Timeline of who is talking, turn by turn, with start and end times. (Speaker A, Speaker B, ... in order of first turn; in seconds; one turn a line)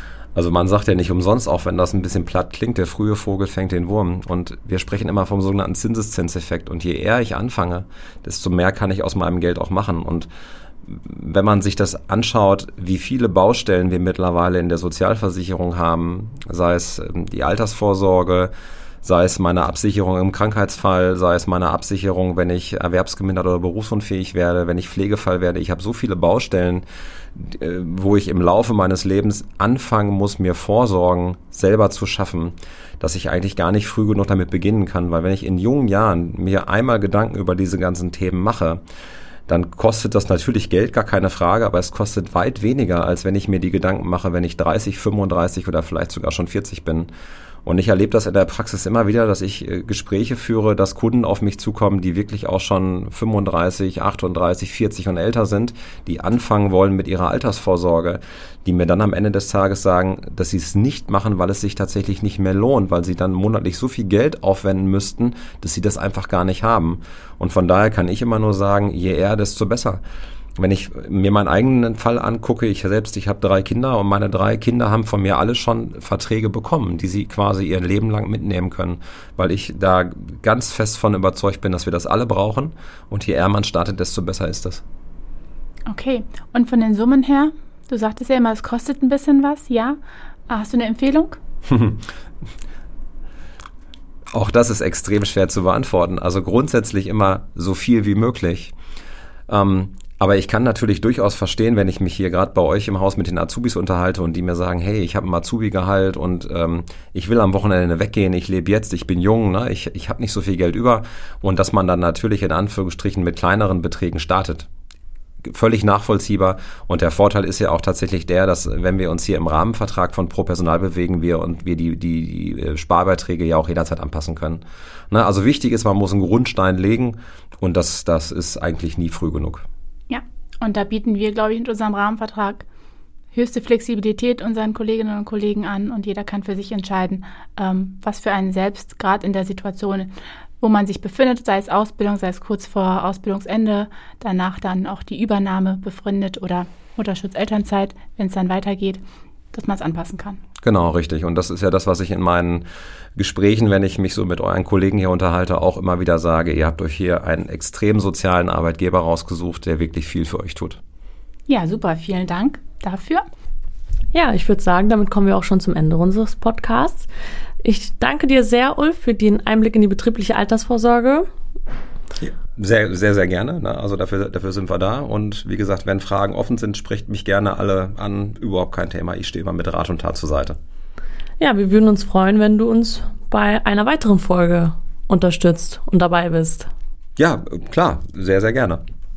Speaker A: 0.3-10.3
Speaker A: 10.8-38.8
Speaker A: 39.5-47.1
Speaker A: 47.6-70.0
Speaker A: 70.6-84.8
Speaker B: 85.9-91.4
Speaker A: 91.7-92.0
Speaker A: 94.3-98.7
Speaker A: 99.5-114.7
Speaker A: 115.5-129.7
Speaker B: 130.1-132.7
Speaker B: 133.3-150.4
Speaker A: 150.6-152.7
Speaker A: 153.2-160.8
Speaker B: 161.5-163.2
Speaker C: 164.1-167.1
Speaker C: 167.6-171.3
Speaker A: 172.2-180.6
Speaker C: 181.4-186.7
Speaker A: 187.2-188.8